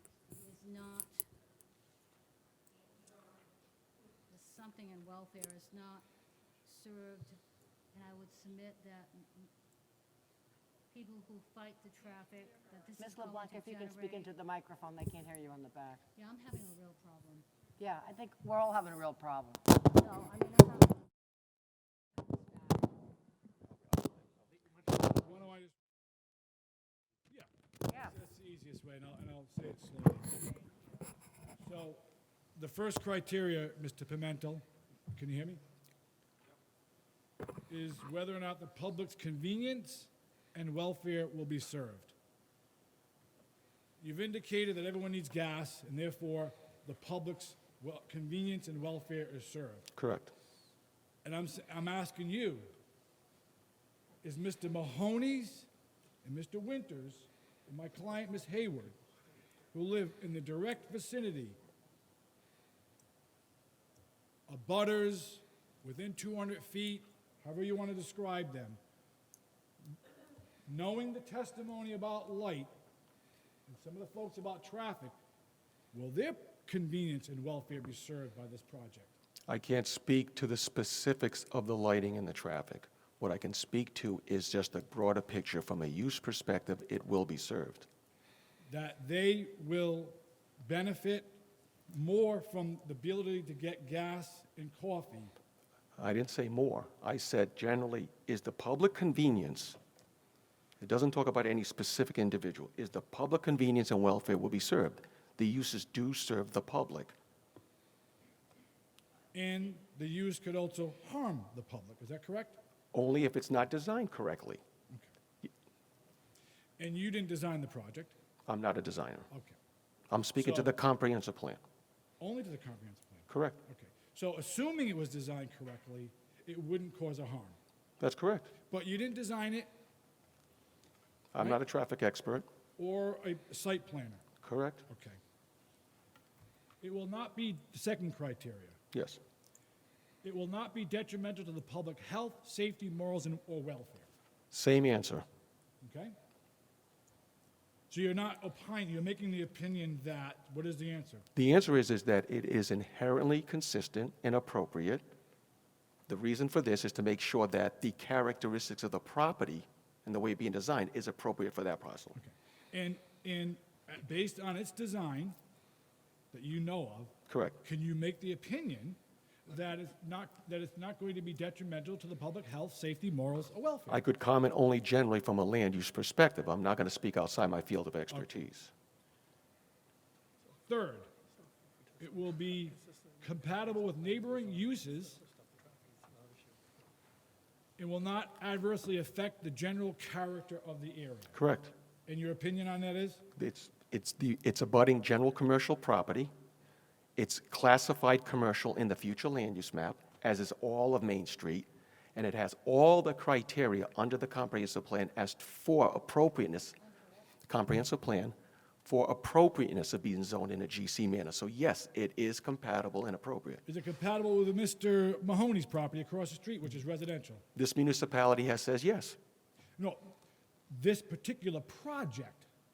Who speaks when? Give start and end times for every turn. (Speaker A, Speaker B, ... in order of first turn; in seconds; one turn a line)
Speaker A: 0.3-1.3
Speaker A: 4.3-6.1
Speaker A: 6.7-7.4
Speaker A: 7.9-9.5
Speaker A: 10.9-14.4
Speaker B: 13.0-16.0
Speaker A: 16.2-17.4
Speaker B: 17.8-19.6
Speaker A: 19.9-21.0
Speaker C: 25.1-25.8
Speaker C: 28.0-30.4
Speaker C: 31.6-32.0
Speaker C: 32.5-35.6
Speaker C: 37.7-42.1
Speaker C: 44.0-49.9
Speaker D: 50.0-50.3
Speaker C: 51.2-52.7
Speaker C: 54.2-55.7
Speaker C: 56.2-59.0
Speaker C: 59.7-61.6
Speaker C: 64.5-68.8
Speaker C: 70.7-72.7
Speaker C: 73.7-75.1
Speaker C: 75.9-79.1
Speaker D: 79.5-87.9
Speaker C: 88.7-95.3
Speaker D: 96.0-99.8
Speaker D: 100.8-107.2
Speaker C: 109.3-112.6
Speaker D: 112.9-114.6
Speaker C: 116.8-118.2
Speaker D: 118.5-119.3
Speaker C: 119.3-119.6
Speaker D: 120.1-121.6
Speaker C: 120.4-120.8
Speaker C: 122.2-127.6
Speaker D: 123.3-123.6
Speaker D: 128.0-128.5
Speaker C: 128.7-129.7
Speaker D: 131.3-132.5
Speaker C: 132.8-134.2
Speaker D: 134.4-134.9
Speaker C: 134.9-135.2
Speaker C: 136.8-138.8
Speaker D: 138.9-139.2
Speaker C: 140.2-144.1
Speaker D: 144.5-145.3
Speaker C: 145.8-146.2
Speaker C: 147.9-151.3
Speaker D: 151.3-155.1
Speaker D: 156.1-162.2
Speaker C: 162.2-165.4
Speaker C: 166.3-174.0
Speaker D: 167.3-167.6
Speaker D: 173.9-178.7
Speaker C: 180.7-181.1
Speaker C: 182.0-185.2
Speaker C: 187.8-191.4
Speaker D: 191.3-191.7
Speaker C: 192.1-193.2
Speaker D: 193.4-196.3
Speaker D: 197.2-206.8
Speaker D: 207.5-213.6
Speaker C: 213.7-217.4
Speaker D: 217.6-219.2
Speaker C: 219.8-220.1
Speaker C: 220.7-222.5